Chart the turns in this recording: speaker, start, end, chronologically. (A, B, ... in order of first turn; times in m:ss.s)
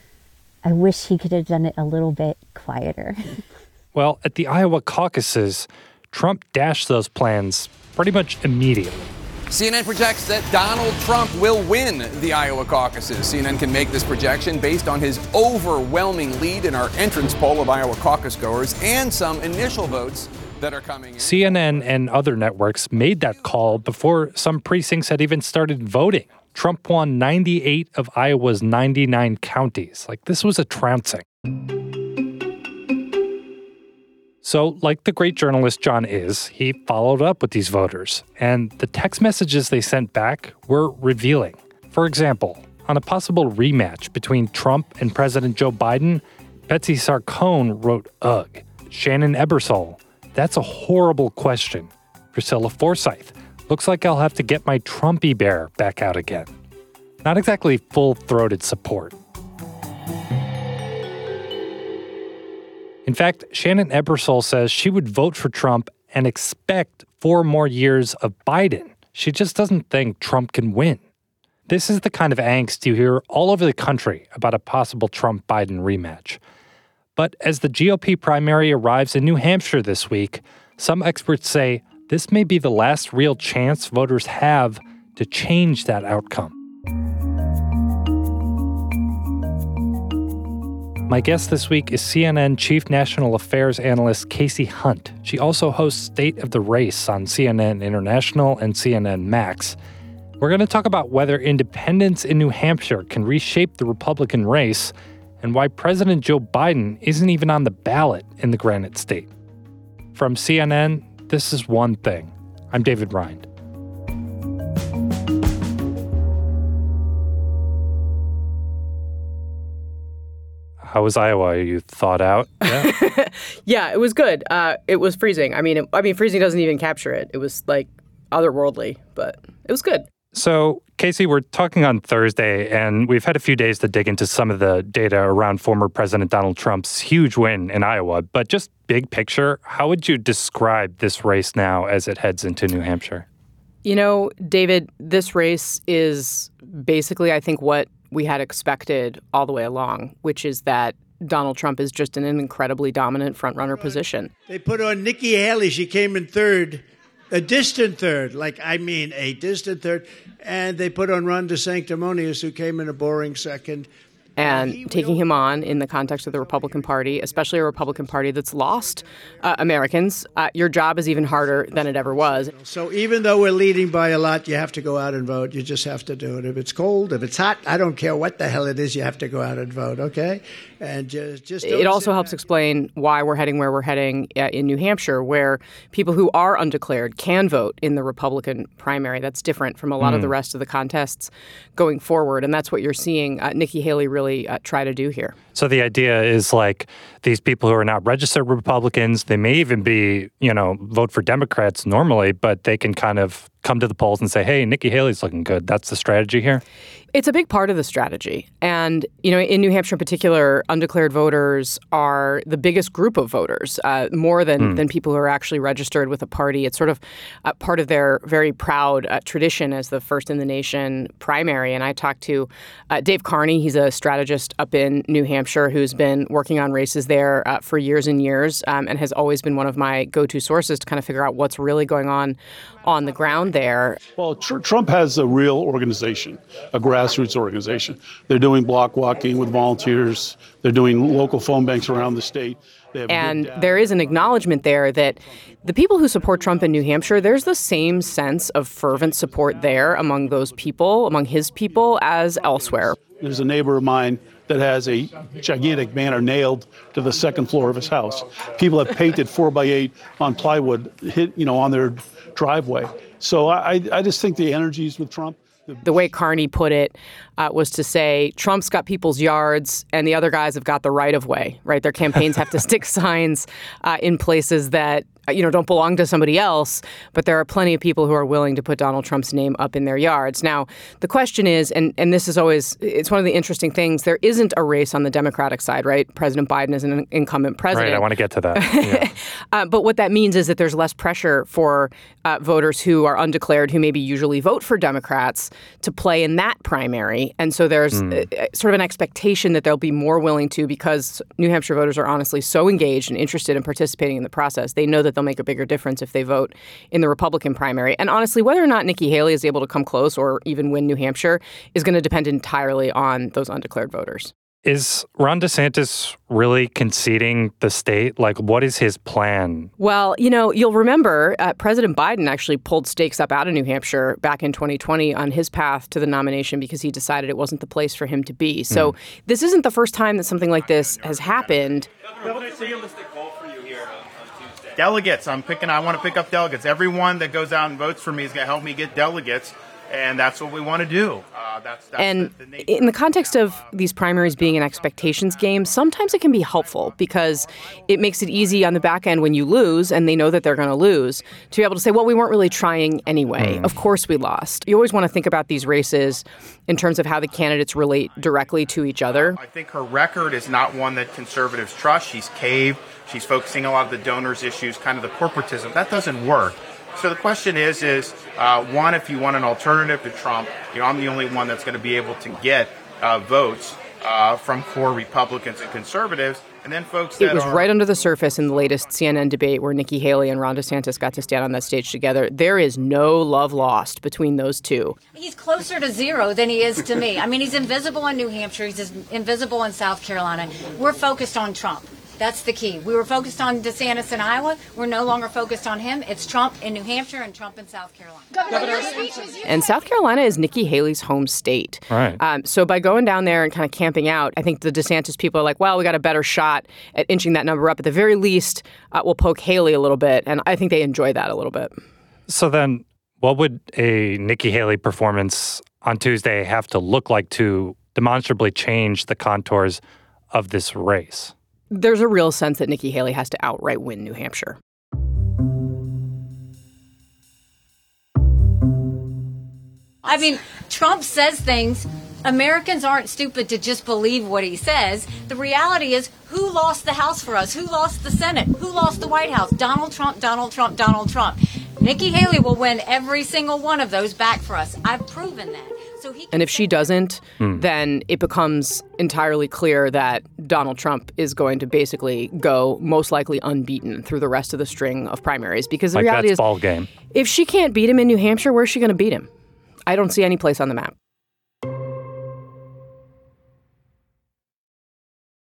0:00.6-0:03.4 A
0:03.9-0:09.1 B
0:09.5-0:21.9 C
0:21.2-0:31.2 B
0:34.4-0:56.5 B
0:57.2-0:59.1 B
1:03.0-1:11.0 B
1:11.7-1:16.4 B
1:17.2-1:26.5 B
1:31.1-1:39.8 B
1:40.4-1:49.3 B
1:50.1-1:53.4 B
2:00.9-2:02.9 B
2:02.7-2:10.1 D
2:10.3-2:23.2 B
2:23.8-2:34.3 D
2:34.5-2:43.9 E
2:44.4-2:52.5 D
2:44.4-2:48.9 E
2:49.5-2:50.0 E
2:51.1-3:02.4 E
3:01.6-3:15.4 D
3:10.0-3:10.3 B
3:15.5-3:26.6 B
3:27.1-3:54.0 D
3:54.2-4:03.8 F
4:03.1-4:13.0 D
4:13.0-4:26.1 F
4:25.8-5:14.3 D
4:47.7-4:49.1 B
5:14.6-5:19.7 B
5:19.8-5:31.9 D
5:30.5-5:31.8 G
5:32.4-5:33.0 C
5:34.8-5:45.7 G
5:42.0-5:59.4 D
5:46.5-5:47.0 G
5:53.4-5:53.6 B
5:59.1-6:17.8 G
6:17.2-6:25.0 D
6:25.1-6:39.0 H
6:39.0-6:51.7 D
6:41.9-6:42.2 B
6:52.3-6:59.8 B
7:00.3-7:01.3 B
7:01.7-7:04.6 D
7:10.0-7:27.0 H
7:26.3-7:36.4 D
7:35.9-7:36.9 B
7:37.1-7:39.3 D
7:39.9-7:40.9 D